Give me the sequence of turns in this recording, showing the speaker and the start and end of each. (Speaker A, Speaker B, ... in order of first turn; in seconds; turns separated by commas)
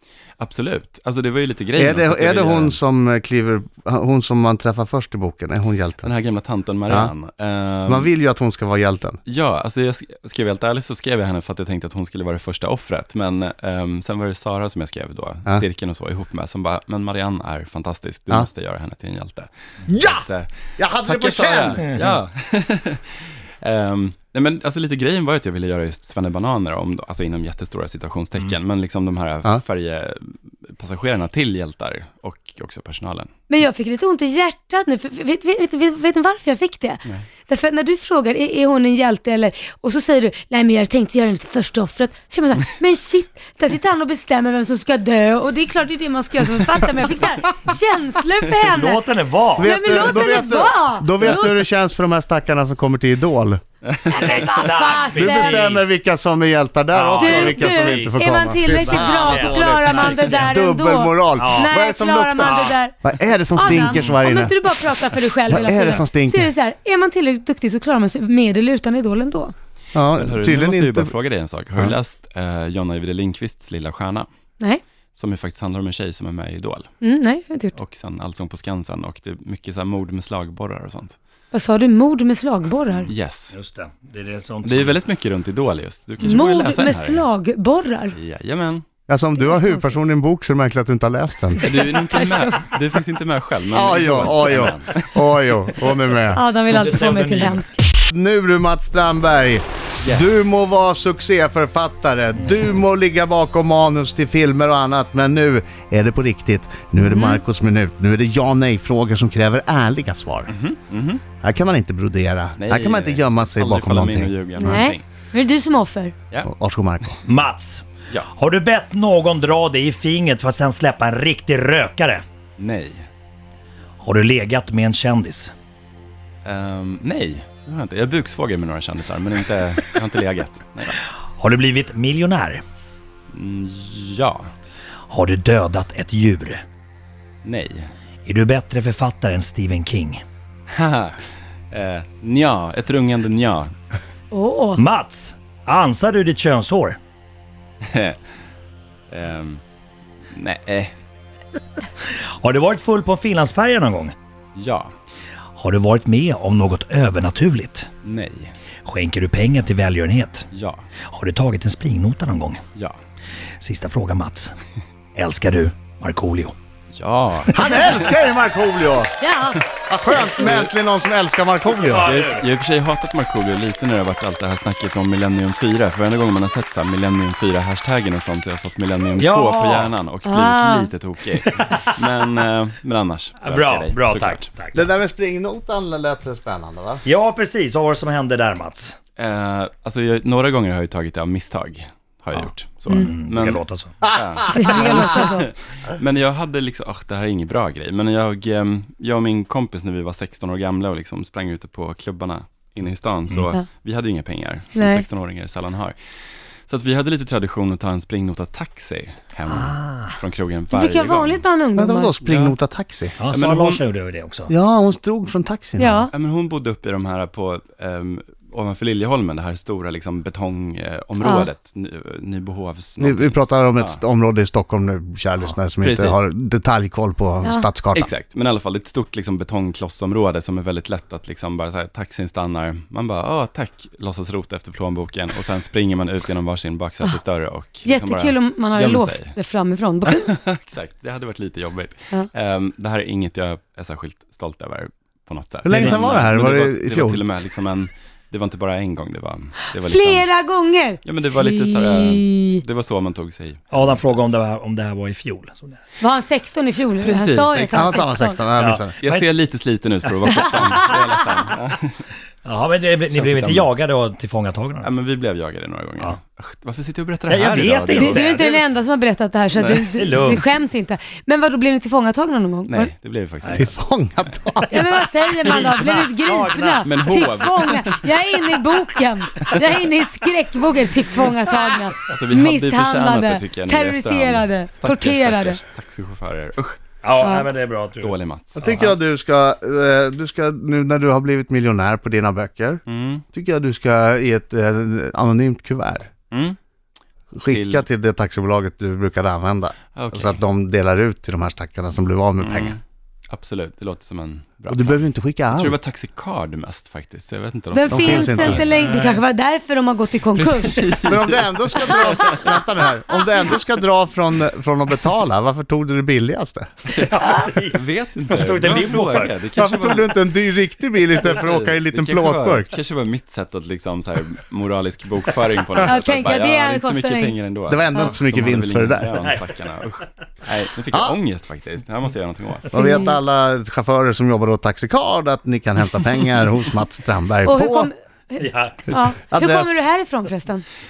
Speaker A: 0.4-2.8, Speaker B: 1.8-6.1, Speaker A: 6.0-8.1, Speaker B: 6.9-7.1, Speaker B: 7.9-9.2, Speaker A: 9.3-20.5, Speaker B: 19.9-21.9, Speaker A: 21.0-33.3, Speaker C: 33.5-49.1, Speaker D: 48.7-50.2, Speaker B: 49.6-53.6, Speaker C: 49.6-51.5, Speaker A: 53.9-54.4, Speaker C: 54.1-55.6, Speaker D: 54.2-55.9, Speaker B: 55.1-64.6, Speaker D: 56.9-60.6, Speaker C: 57.1-63.0, Speaker D: 61.4-61.8, Speaker D: 62.4-62.8, Speaker C: 63.5-69.5, Speaker D: 63.6-64.2, Speaker B: 65.5-66.5, Speaker B: 69.9-71.1, Speaker A: 70.2-74.3, Speaker A: 75.1-76.9, Speaker C: 77.0-77.8, Speaker A: 77.8-81.2, Speaker C: 81.5-83.1, Speaker A: 83.0-83.6, Speaker D: 83.5-85.0, Speaker A: 84.6-87.3, Speaker C: 86.2-88.2, Speaker A: 88.1-88.8, Speaker B: 89.1-91.6, Speaker C: 89.4-90.0, Speaker C: 91.6-92.8, Speaker A: 91.6-95.5, Speaker B: 93.7-96.4, Speaker C: 96.3-97.8, Speaker D: 96.7-97.7, Speaker B: 98.1-110.5, Speaker C: 107.0-107.4, Speaker A: 110.5-111.2, Speaker B: 111.4-114.3, Speaker A: 112.6-115.0, Speaker C: 114.6-116.2, Speaker B: 116.5-117.2, Speaker D: 117.2-122.2, Speaker A: 122.6-123.1, Speaker D: 124.0-125.5, Speaker A: 126.5-131.0, Speaker D: 131.2-132.6, Speaker A: 133.3-134.5, Speaker D: 135.1-136.7, Speaker A: 137.4-137.9, Speaker D: 138.2-140.2, Speaker A: 140.7-141.2, Speaker A: 141.7-143.7, Speaker C: 144.3-144.8, Speaker D: 144.8-147.0, Speaker A: 147.9-148.2, Speaker A: 149.1-149.6, Speaker A: 150.3-150.9, Speaker D: 152.0-154.2, Speaker A: 154.6-154.9, Speaker D: 155.6-157.9, Speaker A: 158.0-158.5, Speaker D: 158.8-160.5, Speaker A: 160.5-160.9, Speaker D: 161.0-162.6, Speaker D: 163.6-164.6, Speaker D: 165.2-166.6, Speaker A: 166.9-167.6, Speaker B: 167.5-169.1, Speaker C: 169.2-169.7, Speaker B: 169.9-172.1, Speaker D: 171.8-172.5, Speaker A: 171.9-184.5, Speaker D: 179.2-179.9, Speaker C: 180.2-180.9, Speaker D: 181.4-181.9, Speaker D: 183.4-184.9, Speaker B: 184.7-187.0, Speaker D: 187.1-189.0, Speaker A: 189.2-205.9, Speaker C: 192.9-193.2, Speaker D: 192.9-194.0, Speaker B: 194.0-195.2, Speaker C: 194.5-195.5, Speaker C: 204.7-205.1, Speaker A: 206.7-211.4, Speaker D: 209.5-210.2, Speaker C: 210.7-212.2, Speaker B: 211.8-213.2, Speaker A: 212.2-212.6, Speaker D: 213.2-214.5, Speaker A: 213.3-213.8, Speaker B: 214.5-216.1, Speaker C: 215.8-216.1, Speaker A: 216.1-224.0, Speaker C: 221.2-221.5, Speaker B: 223.0-228.1, Speaker A: 225.8-226.2, Speaker C: 227.4-227.7, Speaker A: 227.9-239.3, Speaker C: 237.8-240.3, Speaker A: 240.1-250.3, Speaker B: 245.7-247.2, Speaker D: 245.7-246.1, Speaker C: 249.7-252.6, Speaker A: 251.0-254.2, Speaker D: 253.7-255.9, Speaker C: 256.0-258.5, Speaker A: 257.0-258.1, Speaker B: 257.7-258.9, Speaker D: 258.6-259.3, Speaker A: 259.0-262.0, Speaker D: 260.1-261.0, Speaker D: 262.4-264.9, Speaker A: 263.1-263.7, Speaker A: 264.8-268.4, Speaker D: 267.3-268.7, Speaker C: 267.9-272.9, Speaker A: 269.6-270.2, Speaker D: 269.9-270.6, Speaker A: 272.7-273.7, Speaker D: 273.4-273.7, Speaker B: 273.5-274.8, Speaker C: 274.7-285.6, Speaker A: 275.5-275.9, Speaker D: 275.5-277.1, Speaker A: 276.8-278.8, Speaker A: 282.1-286.8, Speaker D: 287.0-288.2, Speaker C: 287.2-287.5, Speaker A: 288.0-289.0, Speaker B: 288.6-292.8, Speaker A: 292.9-293.2, Speaker B: 293.3-296.1, Speaker A: 296.3-296.6, Speaker B: 297.3-302.8, Speaker A: 297.5-297.9, Speaker A: 299.9-300.4, Speaker A: 302.4-309.2, Speaker B: 304.7-305.8, Speaker C: 307.7-310.9, Speaker B: 307.9-308.8, Speaker A: 310.3-312.6, Speaker B: 311.0-316.9, Speaker C: 311.9-312.5, Speaker D: 316.9-319.4, Speaker A: 317.7-320.3, Speaker B: 319.5-322.7, Speaker A: 321.3-332.7, Speaker C: 325.8-327.4, Speaker B: 327.7-329.1, Speaker B: 330.9-331.2, Speaker B: 332.7-337.9, Speaker C: 332.8-333.1, Speaker C: 337.5-340.6, Speaker D: 338.4-338.9, Speaker B: 339.2-339.8